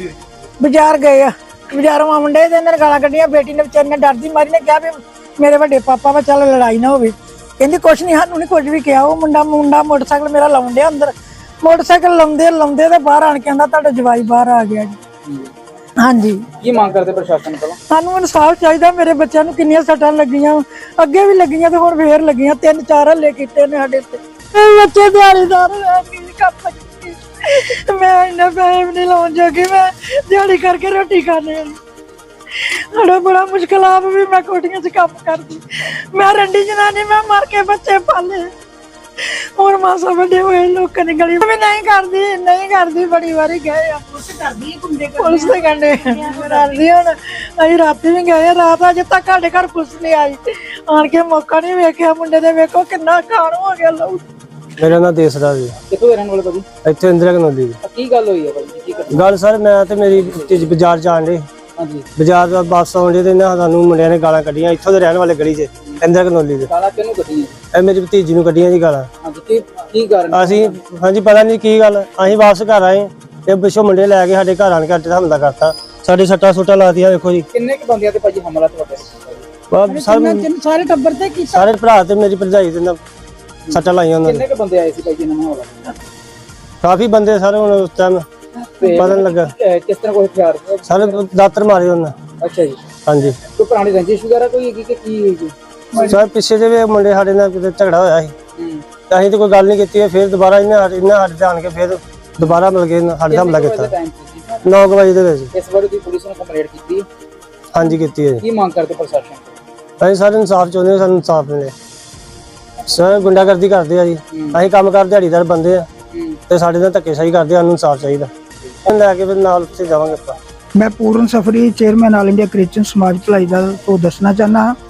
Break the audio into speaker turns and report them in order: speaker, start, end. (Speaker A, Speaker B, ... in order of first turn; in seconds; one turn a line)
Speaker A: 0.6-15.0
Speaker B: 15.2-15.5
Speaker A: 16.0-16.4
Speaker B: 16.6-17.8
Speaker A: 17.9-31.8
Speaker A: 32.9-38.5
Speaker A: 39.6-54.2
Speaker C: 54.8-55.7
Speaker B: 55.9-56.7
Speaker C: 56.8-57.7
Speaker B: 57.8-59.4
Speaker C: 59.1-61.5
Speaker B: 60.1-60.8
Speaker B: 61.8-62.1
Speaker C: 62.1-66.7
Speaker B: 66.7-67.6
Speaker C: 67.7-69.1
Speaker B: 69.2-70.8
Speaker C: 70.3-77.4
Speaker B: 77.5-79.5
Speaker C: 79.7-80.5
Speaker A: 79.8-81.7
Speaker C: 81.5-83.0
Speaker B: 83.7-85.9
Speaker C: 83.7-84.4
Speaker C: 86.8-88.2
Speaker B: 88.8-91.2
Speaker C: 88.9-89.5
Speaker C: 90.9-92.1
Speaker B: 92.4-92.8
Speaker C: 93.0-93.3
Speaker B: 93.4-96.2
Speaker C: 96.1-98.3
Speaker B: 98.6-98.8
Speaker C: 99.1-103.9
Speaker B: 103.2-104.7
Speaker C: 104.7-105.5
Speaker B: 105.5-107.1
Speaker C: 107.7-108.4
Speaker B: 108.4-109.5
Speaker C: 110.0-111.7
Speaker C: 112.9-115.9
Speaker B: 114.3-114.6
Speaker B: 116.1-116.4
Speaker C: 116.5-118.3
Speaker C: 118.9-120.4
Speaker D: 120.7-124.7